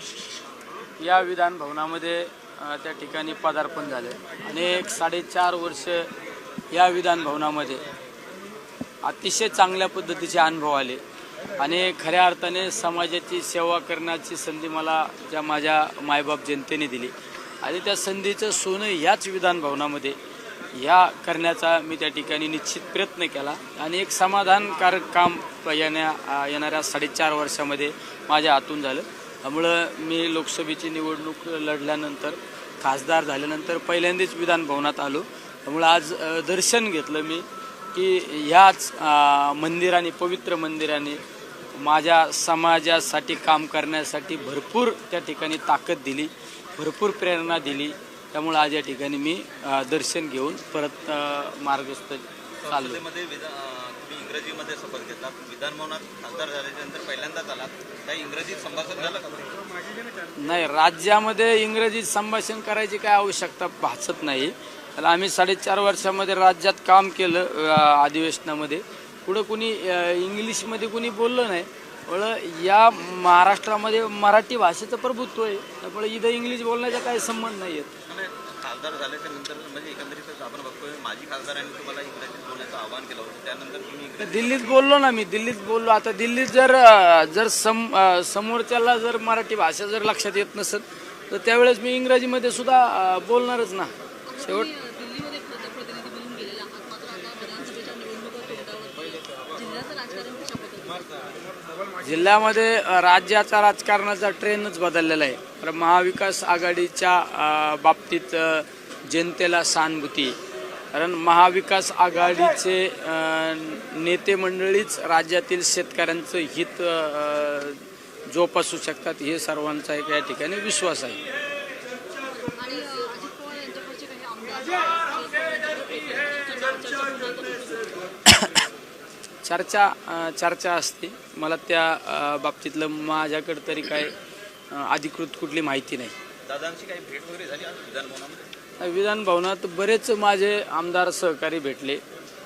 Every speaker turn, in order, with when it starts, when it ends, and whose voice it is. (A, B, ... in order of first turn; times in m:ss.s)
0:01.0-0:06.1 A
0:06.7-0:07.8 A
0:09.0-0:11.0 A
0:11.6-0:20.2 A
0:20.7-0:41.2 A
0:41.7-0:53.0 A
0:52.6-0:59.7 B
1:00.4-1:17.9 A
1:18.1-1:24.8 B
1:24.2-1:34.7 A
1:34.3-1:41.5 C
1:42.0-1:50.4 A
1:50.9-2:01.2 A
2:02.3-2:08.1 C
2:08.2-2:08.7 A
2:09.4-2:14.2 A
2:14.7-2:16.2 A
2:16.5-2:18.5 B
2:18.8-2:22.0 A